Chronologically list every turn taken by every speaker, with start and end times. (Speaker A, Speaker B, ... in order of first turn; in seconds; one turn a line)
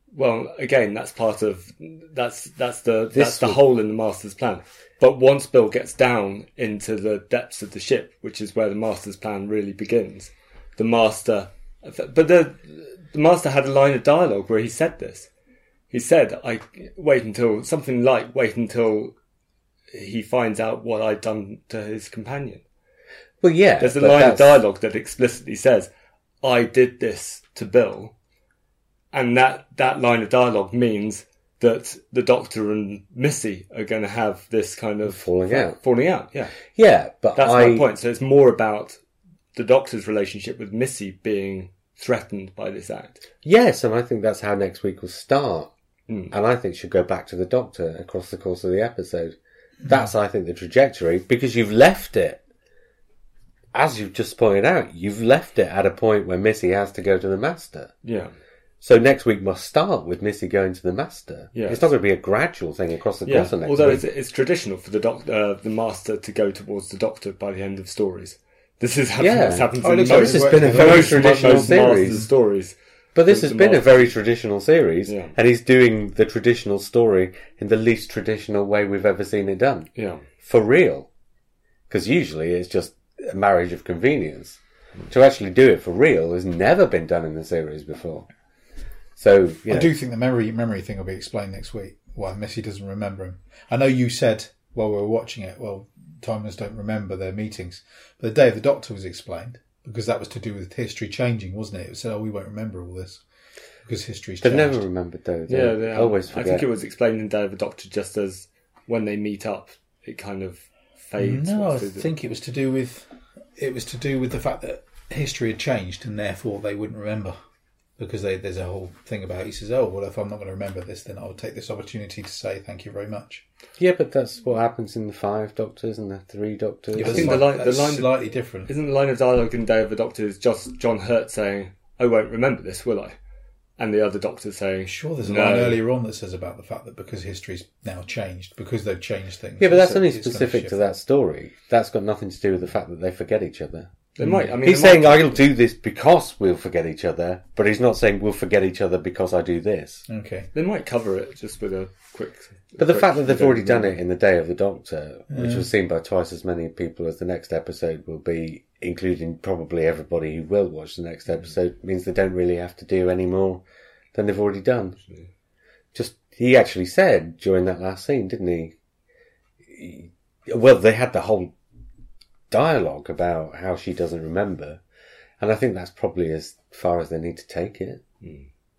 Speaker A: 0.1-15.3
Speaker B: 3.1-3.6
Speaker A: 15.9-19.1
Speaker A: 19.9-22.6
Speaker B: 23.4-24.6
Speaker A: 23.8-25.9
Speaker A: 26.4-28.1
Speaker A: 29.1-36.6
Speaker B: 35.0-35.8
Speaker B: 36.7-37.9
Speaker A: 37.4-39.0
Speaker A: 39.5-43.2
Speaker B: 43.4-45.7
Speaker A: 46.1-46.3
Speaker B: 46.3-52.4
Speaker B: 53.7-57.9
Speaker A: 58.0-58.3
Speaker B: 58.8-64.0
Speaker A: 61.5-61.9
Speaker A: 63.3-72.8
Speaker B: 69.2-72.3
Speaker C: 69.8-72.3
Speaker B: 73.2-79.9
Speaker A: 73.3-74.1
Speaker A: 75.1-75.3
Speaker A: 80.0-80.2
Speaker B: 80.4-81.1
Speaker B: 81.9-84.6
Speaker B: 85.1-88.3
Speaker B: 89.2-89.9
Speaker C: 89.7-103.2
Speaker C: 103.8-104.8
Speaker B: 104.4-106.7
Speaker A: 105.5-112.1
Speaker C: 111.2-117.4
Speaker C: 118.0-123.4
Speaker B: 123.8-127.5
Speaker C: 126.9-128.7
Speaker A: 127.0-133.2
Speaker A: 133.8-135.8
Speaker C: 134.9-140.8
Speaker B: 139.6-143.9
Speaker A: 144.2-145.4
Speaker C: 144.2-144.5
Speaker B: 144.6-150.1
Speaker C: 150.1-150.5
Speaker A: 150.5-154.0
Speaker B: 152.8-163.6
Speaker C: 155.3-155.7
Speaker B: 164.1-165.0
Speaker A: 165.0-165.3
Speaker B: 165.9-168.7
Speaker B: 169.6-171.5
Speaker B: 172.5-174.8
Speaker B: 175.4-178.0
Speaker A: 178.2-178.5